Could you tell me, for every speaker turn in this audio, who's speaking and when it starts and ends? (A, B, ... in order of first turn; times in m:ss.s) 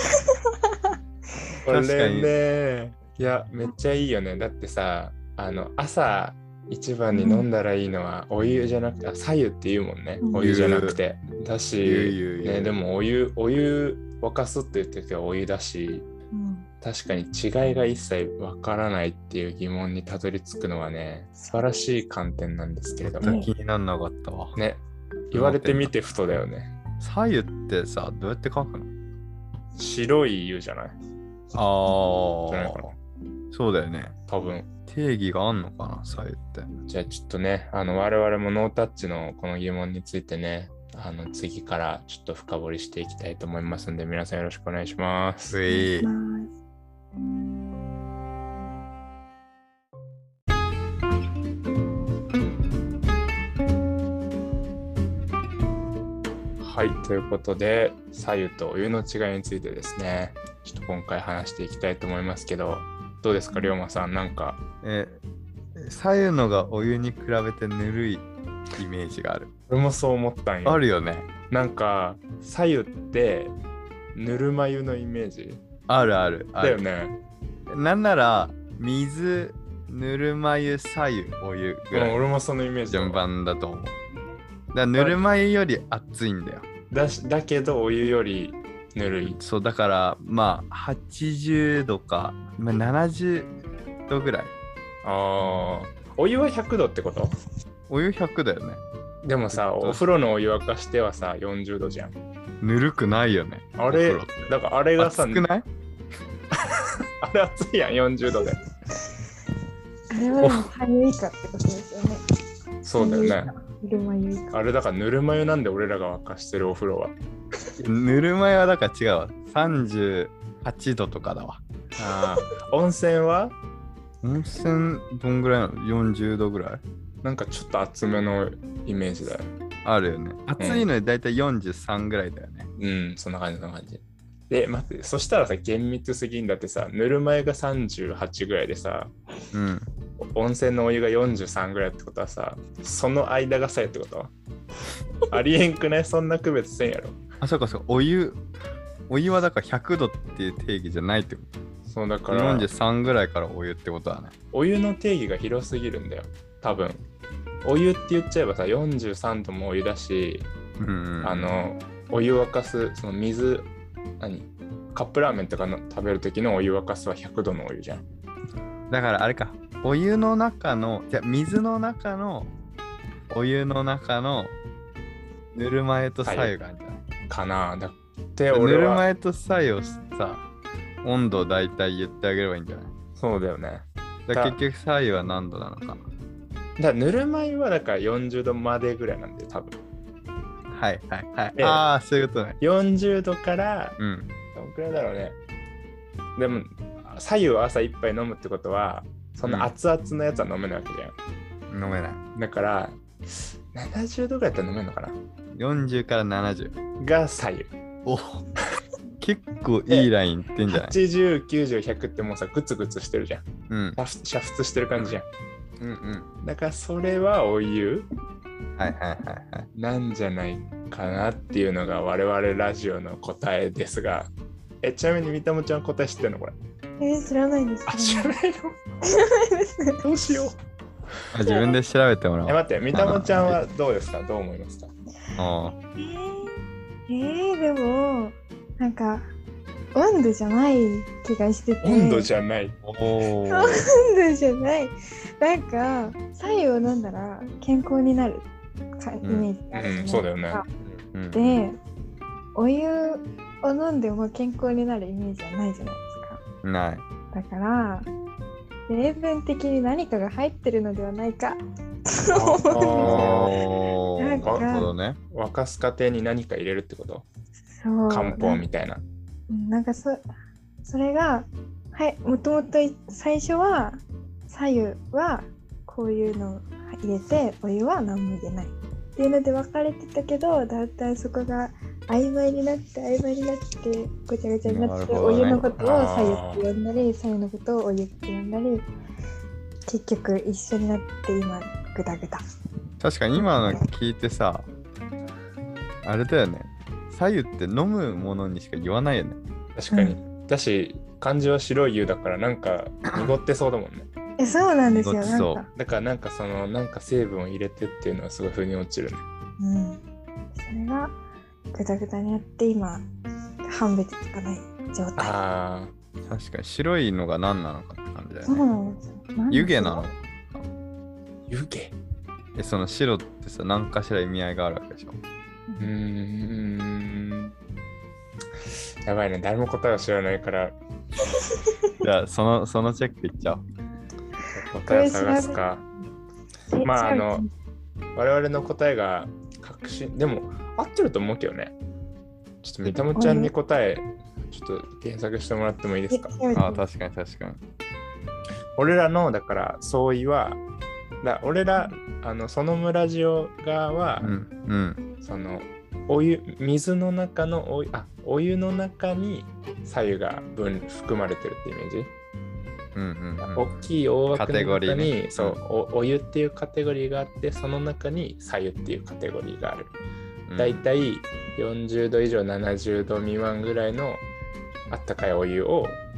0:01.6-0:16.0 A
0:01.6-0:02.3 B
0:07.1-0:07.4 C
0:10.2-0:10.6 C
0:10.3-0:11.0 B
0:11.8-0:12.8 B
0:16.3-0:16.7 C
0:16.8-0:23.4 A
0:21.4-0:21.7 C
0:23.0-0:24.6 B
0:23.2-0:23.5 C
0:24.5-0:26.7 A
0:25.3-0:25.9 B
0:27.0-0:28.9 B
0:29.8-0:31.0 A
0:31.5-0:32.8 B
0:32.5-0:33.0 A
0:33.5-0:34.1 B
0:34.3-0:34.7 A
0:34.9-0:36.7 B
0:36.8-0:45.6 A
0:45.5-0:46.1 B
0:45.7-0:46.5 C
0:56.6-1:04.6 A
1:04.8-1:05.2 B
1:05.8-1:09.5 B
1:09.7-1:10.8 A
1:10.6-1:11.3 B
1:11.5-1:13.5 A
1:14.1-1:15.6 A
1:15.9-1:16.8 B
1:16.6-1:17.2 A
1:17.7-1:22.2 B
1:21.9-1:23.2 A
1:22.9-1:24.0 B
1:24.7-1:26.6 B
1:24.9-1:25.2 A
1:26.9-1:29.4 A
1:29.2-1:33.5 B
1:34.1-1:34.5 B
1:35.0-1:37.3 A
1:37.9-1:38.8 B
1:39.2-1:42.2 A
1:39.5-1:40.0 B
1:42.6-1:44.4 B
1:43.8-1:45.5 A
1:45.0-1:45.7 B
1:46.8-1:48.6 A
1:50.1-1:52.2 C
1:50.4-1:50.7 B
1:52.8-1:53.5 A
1:53.0-1:54.6 C
1:54.5-1:57.1 A
1:57.8-2:01.6 B
2:02.0-2:03.5 A
2:04.2-2:06.8 B
2:07.2-2:09.5 A
2:09.8-2:12.7 B
2:10.6-2:10.9 A
2:12.8-2:19.1 A
2:19.5-2:19.9 B
2:20.3-2:24.3 A
2:25.3-2:27.2 A
2:27.4-2:28.4 B
2:29.1-2:31.5 B
2:31.8-2:32.7 A
2:32.3-2:34.3 B
2:34.5-2:37.0 A
2:37.6-2:40.5 A
2:40.8-2:41.6 B
2:41.2-2:48.0 A
2:48.9-2:52.5 B
2:53.3-2:54.6 B
2:55.5-2:57.0 B
2:56.2-2:56.5 A
2:57.3-2:59.0 A
2:58.5-3:00.4 B
3:01.0-3:02.9 B
3:03.2-3:04.6 A
3:04.3-3:06.1 B
3:06.8-3:09.8 A
3:10.7-3:12.6 B
3:11.5-3:11.9 A
3:12.6-3:14.0 A
3:14.0-3:14.3 B
3:14.5-3:15.4 A
3:16.4-3:21.1 A
3:19.4-3:19.7 B
3:21.7-3:22.2 B
3:22.3-3:25.2 A
3:25.5-3:26.7 B
3:27.0-3:27.7 A
3:28.0-3:28.4 B
3:29.2-3:31.0 B
3:30.7-3:33.4 A
3:33.7-3:34.0 B
3:34.0-3:35.3 A
3:34.9-3:35.2 B
3:35.8-3:36.3 B
3:36.4-3:38.1 A
3:38.8-3:39.7 B
3:39.7-3:44.3 A
3:44.8-3:46.6 A
3:47.0-3:48.3 C
3:47.9-3:48.8 A
3:49.1-3:50.0 C
3:50.0-3:50.6 A
3:51.3-3:53.6 B
3:51.4-3:51.7 C
3:52.4-3:54.9 A
3:55.4-3:55.7 B
3:56.0-3:59.3 C
3:59.9-4:02.3 C
4:01.8-4:02.8 A
4:02.8-4:03.9 B
4:03.5-4:08.5 C
4:09.0-4:10.6 C
4:09.2-4:09.5 B
4:09.7-4:10.6 A
4:11.1-4:11.7 B
4:11.3-4:11.8 C
4:12.5-4:16.4 C
4:16.6-4:17.0 B
4:17.3-4:18.1 C
4:18.9-4:23.6 C
4:22.3-4:23.6 A
4:23.0-4:25.2 B
4:24.2-4:24.9 C
4:24.4-4:24.8 A
4:25.3-4:27.2 A
4:27.7-4:28.6 C
4:28.1-4:29.0 A
4:29.5-4:30.2 C
4:30.8-4:48.9 C
4:44.6-4:45.7 B
4:45.8-4:46.6 A
4:49.9-4:52.4 C
4:53.0-4:54.7 B
4:53.4-4:53.8 C
4:56.0-4:59.4 B
4:59.8-5:04.1 A
4:59.9-5:00.2 C
5:04.4-5:05.7 C
5:04.8-5:05.6 B
5:05.7-5:09.2 A
5:09.6-5:10.0 C
5:10.5-5:11.2 C
5:11.7-5:13.1 C
5:13.6-5:15.4 C
5:15.2-5:15.9 A
5:16.3-5:18.7 B
5:18.4-5:20.1 C
5:19.5-5:20.7 B
5:21.5-5:22.0 A
5:22.5-5:25.2 B
5:25.7-5:25.9 C
5:25.8-5:27.5 A
5:29.0-5:30.8 A
5:31.3-5:31.9 C
5:32.0-5:33.6 B
5:34.5-5:35.8 A
5:34.8-5:35.6 C
5:36.7-5:37.5 C
5:36.8-5:37.4 A
5:38.2-5:41.7 A
5:42.6-5:46.4 A
5:43.2-5:43.5 C
5:46.1-5:46.8 C
5:46.5-5:47.6 B
5:48.8-5:50.6 A
5:51.2-5:54.3 A
5:54.2-5:55.0 B
5:55.2-6:02.1 A
6:02.9-6:05.6 B
6:03.4-6:09.9 A
6:10.5-6:10.9 B
6:10.6-6:14.2 A
6:14.9-6:16.0 A